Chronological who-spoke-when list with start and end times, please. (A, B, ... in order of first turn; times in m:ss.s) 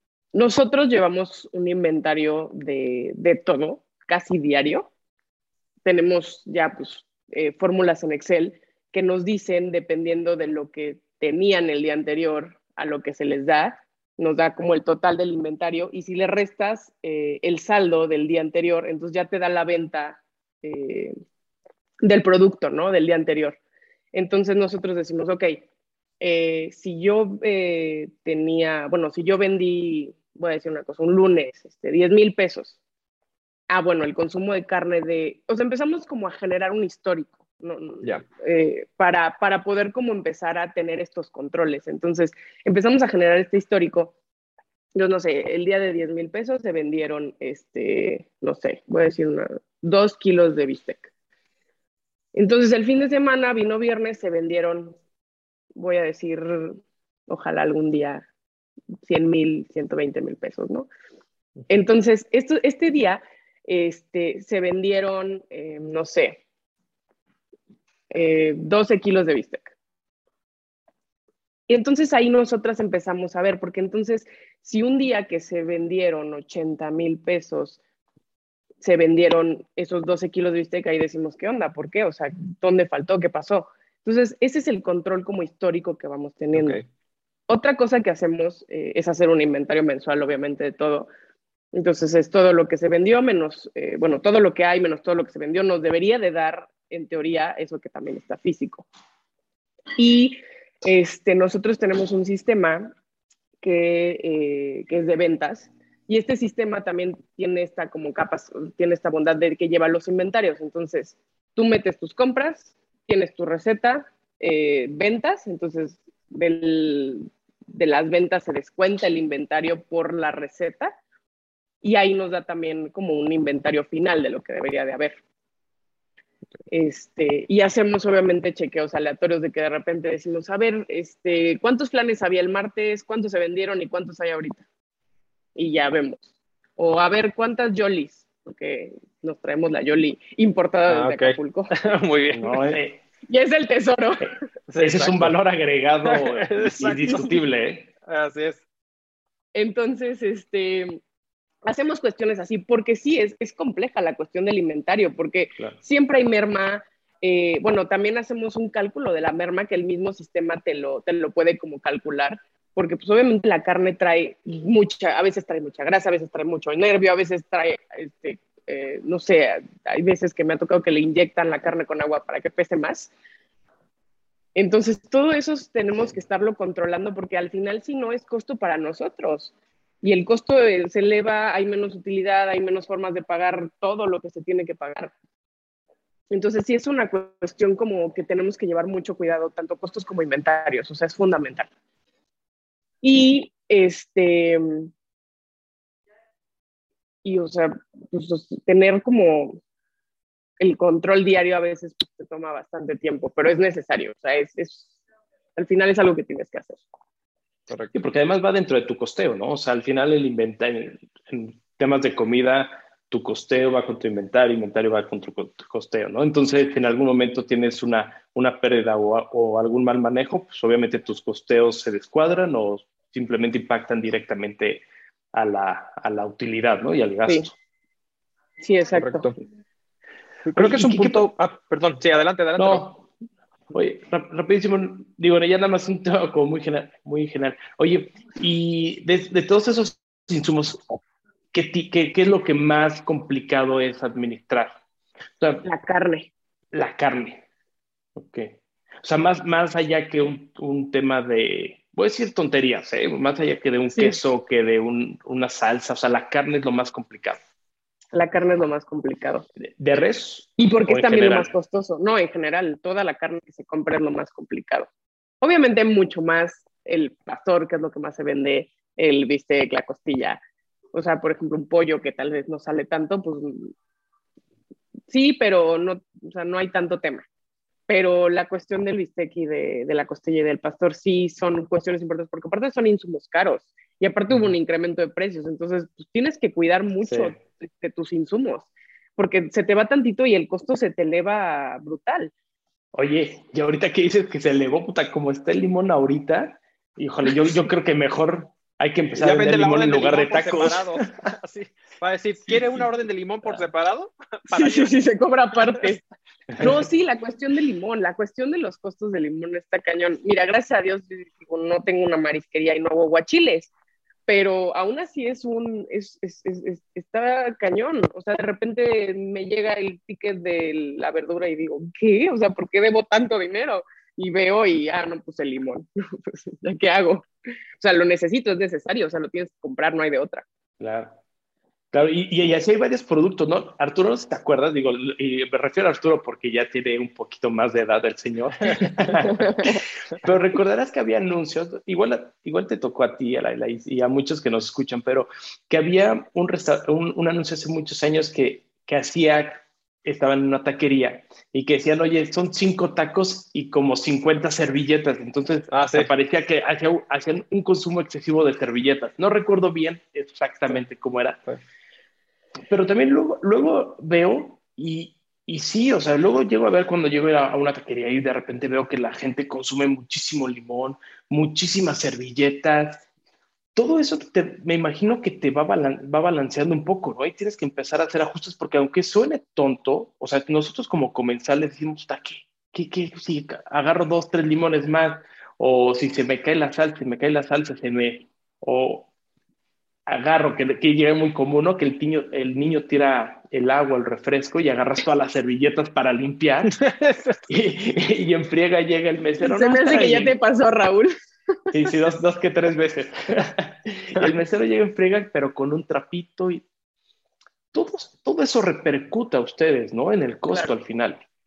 0:00.3-0:04.9 A
0:05.8-0:21.1 A
0:22.0-0:23.6 A
0:24.1-0:25.6 A
0:26.2-0:32.8 A
0:33.7-0:44.1 A
0:44.9-0:51.1 A
0:52.3-0:55.0 A
0:55.8-0:58.2 A
0:59.0-1:00.9 A
1:01.7-1:06.4 A
1:08.1-1:09.7 A
1:11.7-1:17.8 A
1:18.8-1:26.8 A
1:26.5-1:26.8 B
1:27.5-1:31.1 A
1:31.7-1:38.9 A
1:40.0-1:42.9 A
1:43.6-2:00.9 A
2:01.8-2:05.2 A
2:06.7-2:14.6 A
2:15.6-2:21.7 A
2:20.9-2:22.6 B
2:22.3-2:23.0 C
2:23.3-2:24.4 A
2:24.7-2:25.3 B
2:24.8-2:27.9 C
2:26.0-2:27.4 B
2:28.0-2:28.6 B
2:29.5-2:31.0 A
2:31.6-2:53.1 A
2:54.6-3:05.1 A
3:06.3-3:11.7 A
3:13.0-3:14.9 A
3:17.2-3:19.6 A
3:20.6-3:24.9 A
3:25.6-3:26.8 A
3:27.7-3:27.9 B
3:27.9-3:47.5 C
3:48.6-3:49.3 A
3:48.9-3:49.3 B
3:50.4-3:52.9 B
3:50.5-3:51.3 C
3:52.6-3:53.0 C
3:53.7-4:04.8 C
4:05.4-4:05.6 C
4:05.6-4:06.3 A
4:06.7-4:07.4 C
4:08.2-4:17.4 C
4:13.9-4:14.2 A
4:18.1-4:19.4 A
4:19.8-4:21.5 C
4:20.6-4:24.9 A
4:25.4-4:30.4 A
4:30.9-4:33.7 A
4:35.1-4:37.2 A
4:37.9-4:52.3 A
4:47.0-4:47.3 C
4:52.9-5:01.1 C
4:59.2-5:04.9 B
5:02.5-5:02.9 C
5:04.5-5:06.0 A
5:06.6-5:06.8 C
5:06.6-5:13.7 A
5:14.3-5:27.3 A
5:27.8-5:30.4 A
5:30.8-5:31.2 C
5:31.9-6:01.4 C
5:39.4-5:39.8 A
5:55.7-5:56.1 B
6:02.7-6:13.0 C
6:13.8-6:29.1 C
6:30.1-6:36.8 C
6:36.7-6:37.4 B
6:37.5-6:40.3 C
6:39.4-6:41.1 A
6:41.7-6:46.6 C
6:47.7-6:51.2 C
6:50.5-6:50.7 A